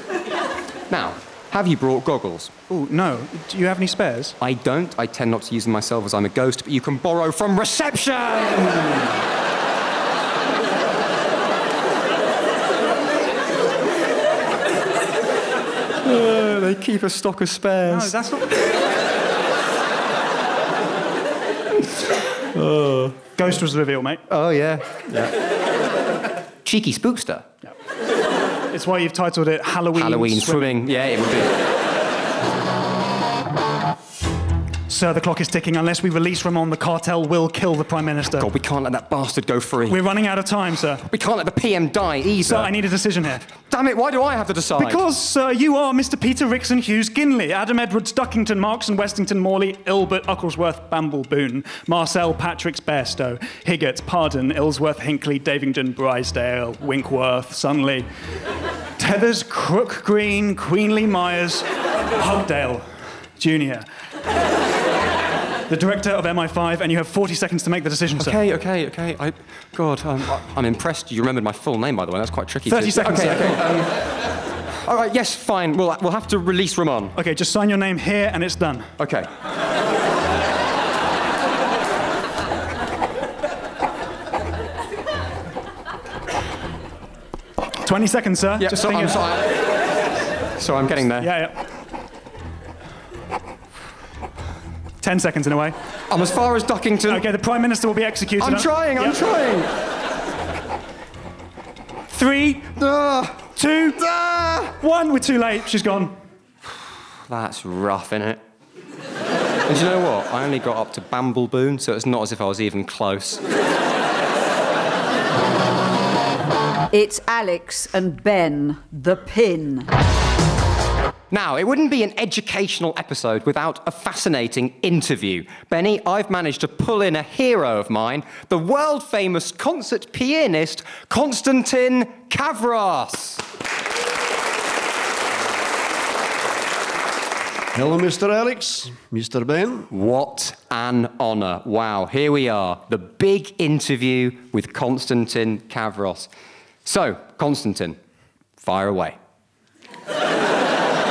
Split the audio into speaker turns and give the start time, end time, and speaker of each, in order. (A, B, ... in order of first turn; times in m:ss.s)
0:00.9-0:02.5 A
0:02.7-0:04.4 B
0:04.4-0:09.1 A
0:16.0-0:18.1 A
0:17.9-0:18.6 B
0:22.5-0:23.2 A
0:23.4-0:24.2 B
0:24.3-0:25.3 A
0:26.6-0:27.5 A
0:28.7-0:31.0 B
0:29.9-0:31.6 A
0:34.9-0:38.5 B
0:38.3-0:40.0 A
0:39.9-0:41.0 B
0:41.0-0:42.7 A
0:42.4-0:43.5 B
0:43.5-0:45.0 A
0:44.8-0:58.1 B
0:59.0-1:01.6 B
1:02.2-1:03.9 B
1:05.7-1:08.4 B
1:08.2-1:14.0 A
1:12.6-1:13.6 B
1:14.8-1:17.2 A
1:17.2-1:18.9 B
1:19.0-1:19.3 A
1:27.8-1:29.2 B
1:28.6-1:29.6 A
1:30.6-1:31.4 A
1:31.1-1:31.6 B
1:35.0-1:35.8 B
1:36.1-1:37.2 A
1:37.1-1:39.2 B
1:38.4-1:39.7 A
1:42.1-1:42.8 B
1:42.8-1:44.7 A
1:43.6-1:44.0 B
1:44.8-1:46.2 B
1:47.3-1:48.4 A
1:49.6-1:53.4 A
1:56.9-1:59.9 C
2:01.3-2:13.4 A
2:17.7-2:19.9 D
2:19.9-2:26.3 A
2:26.8-2:28.0 A
2:28.6-2:29.2 A